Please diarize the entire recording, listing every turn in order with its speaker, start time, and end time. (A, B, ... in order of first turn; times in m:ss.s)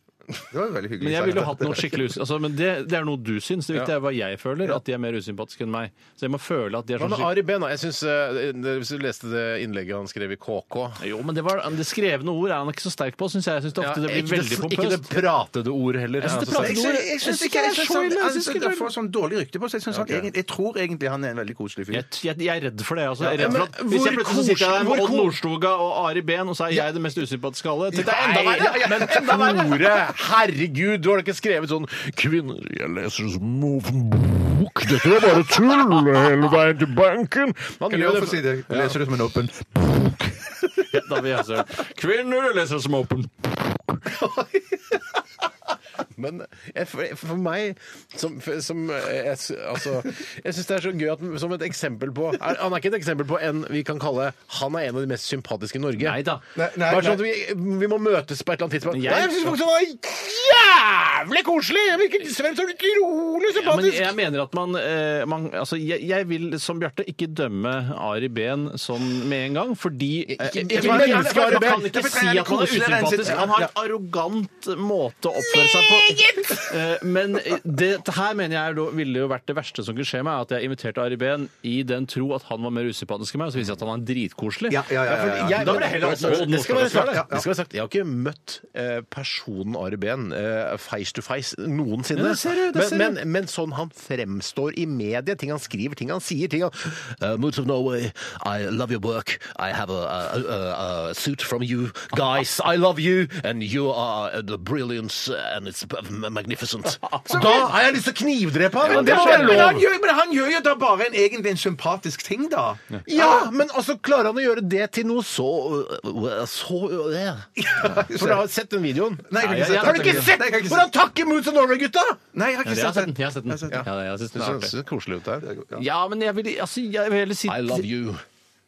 0:00.5-0:02.0 A
0:01.0-0:07.4 B
0:07.0-0:11.0 C
0:11.0-0:15.1 B
0:13.8-0:16.9 C
0:16.2-0:18.9 B
0:16.3-0:22.0 A
0:19.9-0:20.3 C
0:21.9-0:28.7 B
0:23.2-0:23.6 A
0:23.3-0:25.4 C
0:27.9-0:30.0 A
0:27.9-0:39.0 C
0:37.9-0:40.7 A
0:40.8-0:44.0 B
0:44.1-0:45.0 A
0:46.1-1:04.2 C
0:56.0-0:56.4 B
0:56.5-0:57.2 A
0:58.9-0:59.6 B
1:03.5-1:27.3 B
1:10.3-1:11.9 C
1:10.4-1:13.7 A
1:15.4-1:16.7 C
1:24.7-1:27.5 A
1:25.0-1:49.8 C
1:32.1-1:33.2 B
1:47.2-1:47.7 A
1:48.8-1:53.5 A
1:48.8-1:49.8 B
1:53.1-2:02.2 C
1:57.6-1:58.4 A
1:59.3-2:00.9 A
1:59.4-2:00.4 B
2:02.3-2:03.8 A
2:02.6-2:04.7 B
2:03.7-2:05.5 C
2:05.4-2:05.8 A
2:05.7-2:07.9 B
2:07.5-2:08.2 C